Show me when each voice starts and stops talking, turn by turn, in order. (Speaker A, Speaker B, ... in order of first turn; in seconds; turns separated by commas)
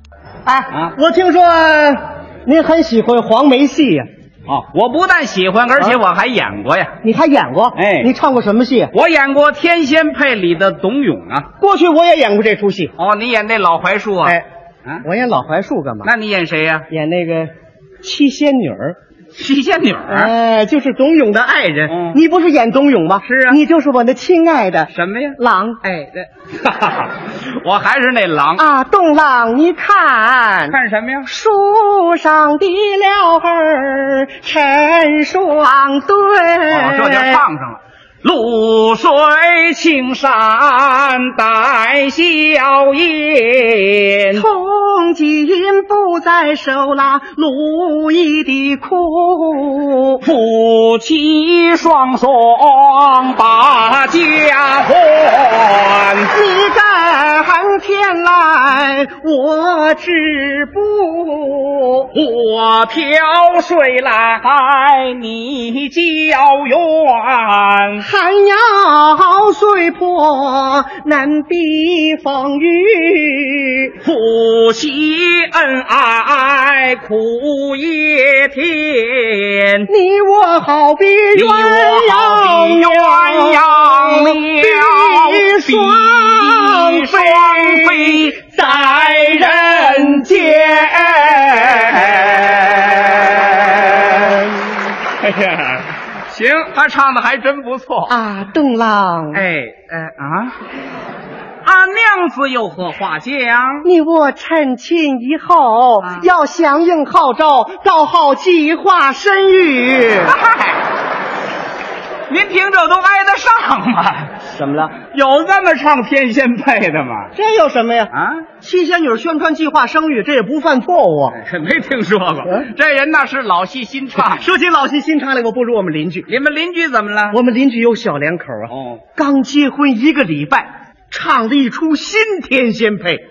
Speaker A: 0.4-4.1, Speaker B: 4.5-7.0, Speaker A: 7.0-8.9, Speaker B: 7.7-8.1, Speaker B: 8.9-11.5, Speaker A: 11.6-12.9, Speaker B: 13.0-15.0, Speaker A: 15.0-16.1, Speaker B: 16.0-16.9, Speaker A: 16.9-19.0, Speaker B: 19.3-20.3, Speaker A: 20.1-25.8, Speaker B: 21.9-22.2, Speaker B: 23.2-23.6, Speaker B: 24.9-28.6, Speaker A: 28.6-37.4, Speaker B: 30.7-31.3, Speaker B: 36.7-44.4, Speaker A: 44.3-50.2, Speaker B: 50.2-56.3, Speaker A: 56.3-62.1, Speaker B: 62.1-68.0, Speaker A: 68.0-73.9, Speaker B: 74.0-79.9, Speaker A: 79.9-92.0, Speaker B: 81.3-94.4, Speaker A: 94.1-94.7, Speaker B: 95.1-98.1, Speaker A: 98.1-99.4, Speaker B: 99.3-100.5, Speaker B: 101.6-103.9, Speaker A: 103.8-110.3, Speaker B: 110.2-110.8, Speaker B: 112.3-114.4, Speaker A: 114.5-114.9, Speaker B: 115.0-117.3, Speaker A: 117.3-121.4, Speaker B: 118.1-118.5, Speaker B: 121.3-124.5, Speaker A: 124.2-126.3, Speaker B: 126.3-127.4, Speaker A: 127.3-133.2, Speaker B: 128.7-129.0